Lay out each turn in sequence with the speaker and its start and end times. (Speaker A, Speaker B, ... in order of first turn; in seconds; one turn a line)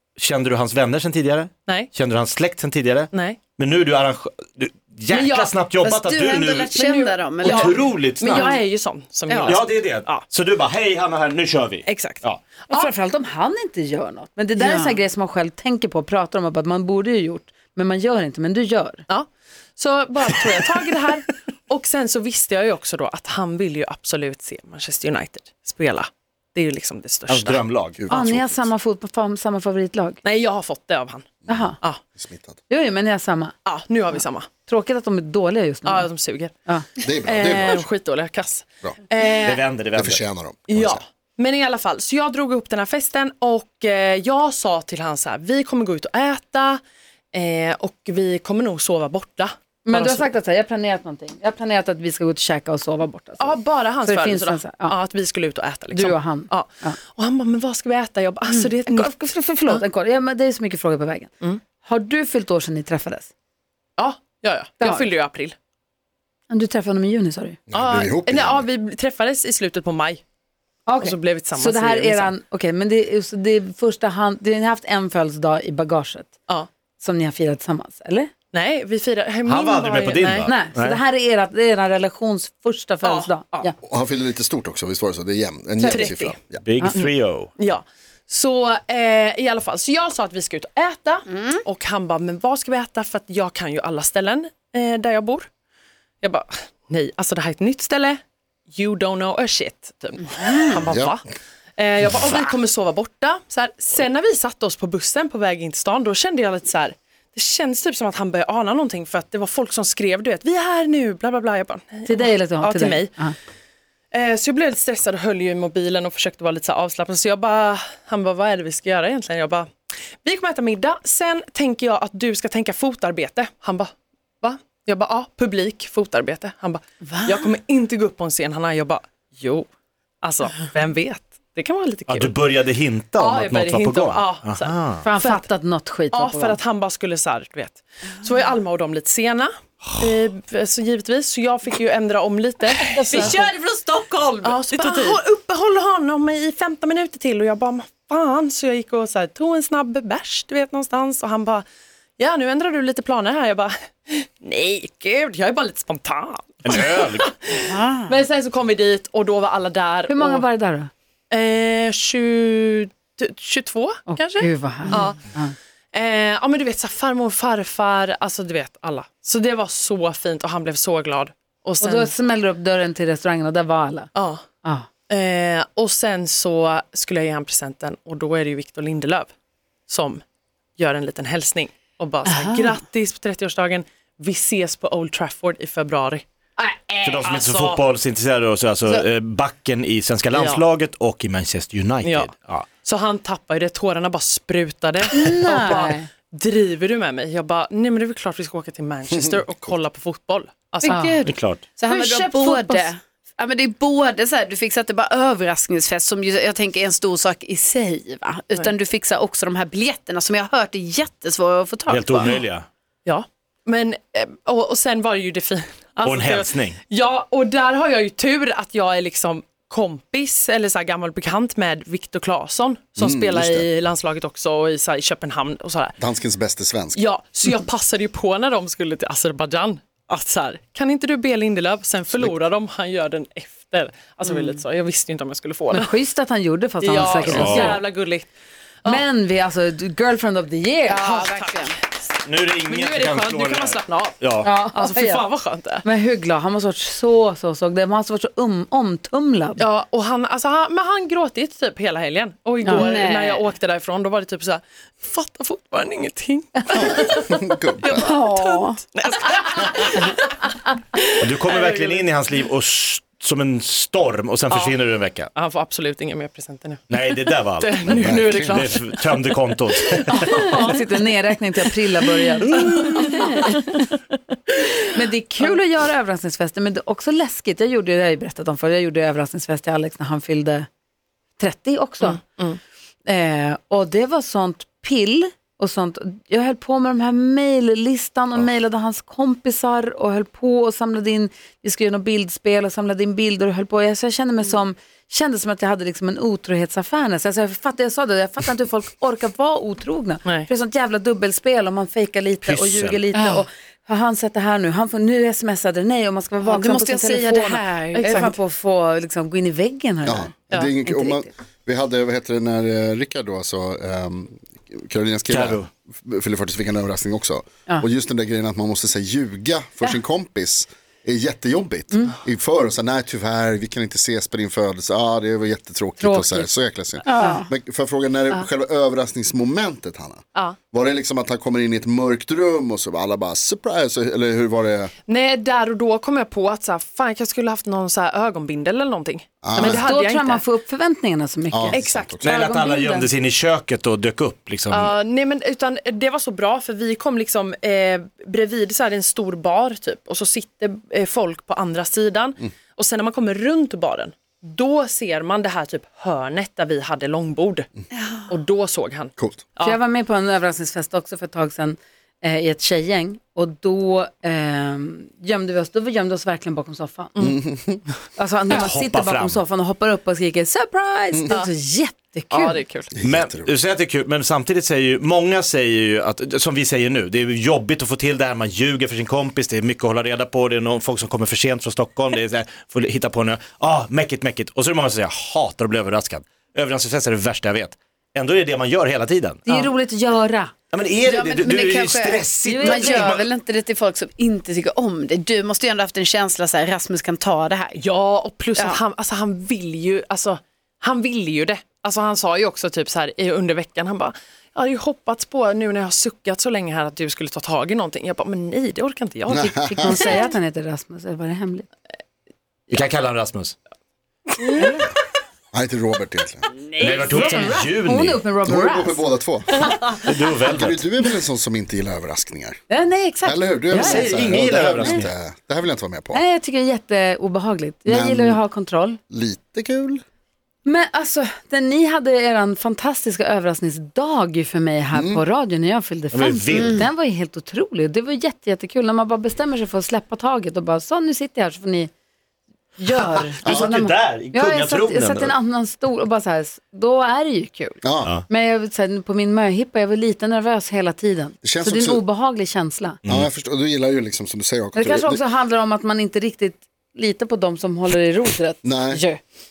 Speaker A: 0.2-6.7
Speaker B: 3.1-3.4
Speaker C: 5.3-8.6
Speaker B: 6.6-10.2
Speaker A: 7.4-8.5
Speaker A: 9.3-12.4
Speaker B: 11.8-12.2
Speaker D: 12.7-19.0
Speaker C: 14.6-15.0
Speaker B: 19.1-27.6
Speaker A: 27.3-28.1
Speaker E: 28.0-28.7
Speaker D: 28.1-30.2
Speaker B: 30.2-31.3
Speaker E: 31.4-32.6
Speaker D: 31.4-31.8
Speaker D: 32.7-33.5
Speaker B: 33.6-34.5
Speaker D: 34.7-36.1
Speaker B: 35.8-36.5
Speaker E: 37.0-37.9
Speaker B: 37.2-39.6
Speaker A: 39.3-40.2
Speaker E: 40.0-41.0
Speaker B: 40.7-46.8
Speaker B: 47.3-50.3
Speaker D: 49.9-55.0
Speaker B: 53.4-59.1
Speaker D: 55.9-57.0
Speaker D: 58.5-63.3
Speaker B: 64.0-65.5
Speaker D: 64.8-65.1
Speaker D: 66.5-67.6
Speaker E: 67.7-68.7
Speaker B: 67.7-70.2
Speaker D: 70.8-76.3
Speaker B: 71.0-72.3
Speaker D: 77.0-78.3
Speaker B: 78.5-80.5
Speaker A: 79.4-81.0
Speaker D: 80.5-83.8
Speaker B: 83.0-83.7
Speaker E: 83.8-86.6
Speaker B: 85.8-95.5
Speaker A: 86.6-87.5
Speaker C: 91.3-91.6
Speaker B: 96.2-98.2
Speaker B: 98.7-113.2
Speaker C: 100.4-100.7
Speaker E: 100.9-101.2
Speaker D: 112.0-113.3
Speaker B: 114.1-119.7
Speaker B: 120.2-129.7
Speaker B: 130.2-132.4
Speaker A: 132.1-135.0
Speaker B: 133.2-135.5
Speaker D: 135.0-136.6
Speaker B: 136.1-143.4
Speaker C: 143.3-143.6
Speaker C: 144.2-144.5
Speaker B: 144.4-151.6
Speaker B: 152.2-160.4
Speaker A: 156.6-157.3
Speaker C: 157.7-158.0
Speaker D: 160.1-160.9
Speaker B: 161.3-165.2
Speaker D: 164.1-165.5
Speaker B: 165.9-172.1
Speaker D: 171.8-174.1
Speaker B: 174.1-174.4
Speaker B: 175.1-179.3
Speaker B: 179.9-180.2
Speaker B: 180.8-186.2
Speaker A: 187.0-192.7
Speaker B: 187.2-187.8
Speaker B: 190.3-190.6
Speaker B: 192.0-201.0
Speaker D: 195.1-196.1
Speaker C: 200.8-212.4
Speaker D: 200.8-201.2
Speaker A: 201.2-201.6
Speaker D: 201.8-202.9
Speaker A: 211.9-212.7
Speaker B: 213.1-226.0
Speaker A: 216.0-216.8
Speaker E: 223.0-223.7
Speaker E: 226.0-227.0
Speaker B: 226.9-235.9
Speaker D: 235.7-237.8
Speaker B: 236.8-238.3
Speaker A: 237.2-237.8
Speaker D: 238.8-241.0
Speaker C: 240.8-241.8
Speaker B: 241.0-242.1
Speaker A: 242.2-244.5
Speaker B: 242.6-245.8
Speaker D: 244.4-245.2
Speaker D: 245.8-249.6
Speaker B: 249.6-260.4
Speaker C: 252.7-253.4
Speaker E: 256.7-258.2
Speaker C: 257.9-258.8
Speaker A: 261.2-265.3
Speaker B: 261.4-262.1
Speaker B: 264.5-264.8
Speaker B: 265.3-270.8
Speaker A: 266.9-270.6
Speaker E: 267.8-268.7
Speaker D: 270.2-273.9
Speaker B: 272.6-273.3
Speaker D: 274.8-280.7
Speaker D: 281.4-282.2
Speaker B: 282.0-282.6
Speaker D: 283.0-311.3
Speaker A: 302.4-303.0
Speaker C: 303.1-303.4
Speaker C: 306.4-308.3
Speaker B: 307.9-308.3
Speaker E: 310.1-334.9
Speaker A: 315.3-315.7
Speaker D: 326.0-326.5
Speaker C: 327.1-327.4
Speaker D: 327.1-327.4
Speaker B: 335.1-340.4
Speaker E: 339.4-339.9
Speaker D: 339.6-343.1
Speaker E: 341.5-342.3
Speaker B: 341.7-342.1
Speaker A: 342.2-344.9
Speaker B: 344.7-357.7
Speaker B: 358.3-359.8
Speaker E: 359.2-359.4
Speaker D: 359.6-367.3
Speaker E: 367.2-367.8
Speaker D: 368.1-372.6
Speaker A: 368.5-369.4
Speaker B: 372.3-372.9
Speaker E: 373.0-373.5
Speaker A: 373.0-389.7
Speaker D: 389.4-390.5
Speaker A: 390.7-393.3
Speaker C: 391.0-397.8
Speaker D: 392.4-393.1
Speaker B: 397.7-410.2
Speaker E: 409.3-410.2
Speaker D: 409.4-411.6
Speaker A: 412.7-413.6
Speaker D: 414.6-414.8
Speaker E: 415.5-416.4
Speaker A: 416.8-418.2
Speaker D: 417.0-419.0
Speaker E: 418.4-419.8
Speaker A: 420.0-420.8
Speaker E: 420.5-422.6
Speaker D: 422.7-425.0
Speaker E: 423.2-426.2
Speaker A: 423.7-425.1
Speaker D: 426.1-429.0
Speaker E: 427.9-428.4
Speaker E: 429.1-430.0
Speaker D: 430.6-441.9
Speaker E: 434.9-435.2
Speaker A: 436.1-436.9
Speaker C: 436.5-436.8
Speaker D: 442.8-447.8
Speaker A: 443.4-445.3
Speaker E: 443.4-443.7
Speaker E: 447.8-448.1
Speaker D: 448.3-453.0
Speaker E: 451.4-452.0
Speaker E: 453.1-455.2
Speaker D: 454.7-459.2
Speaker E: 458.6-459.0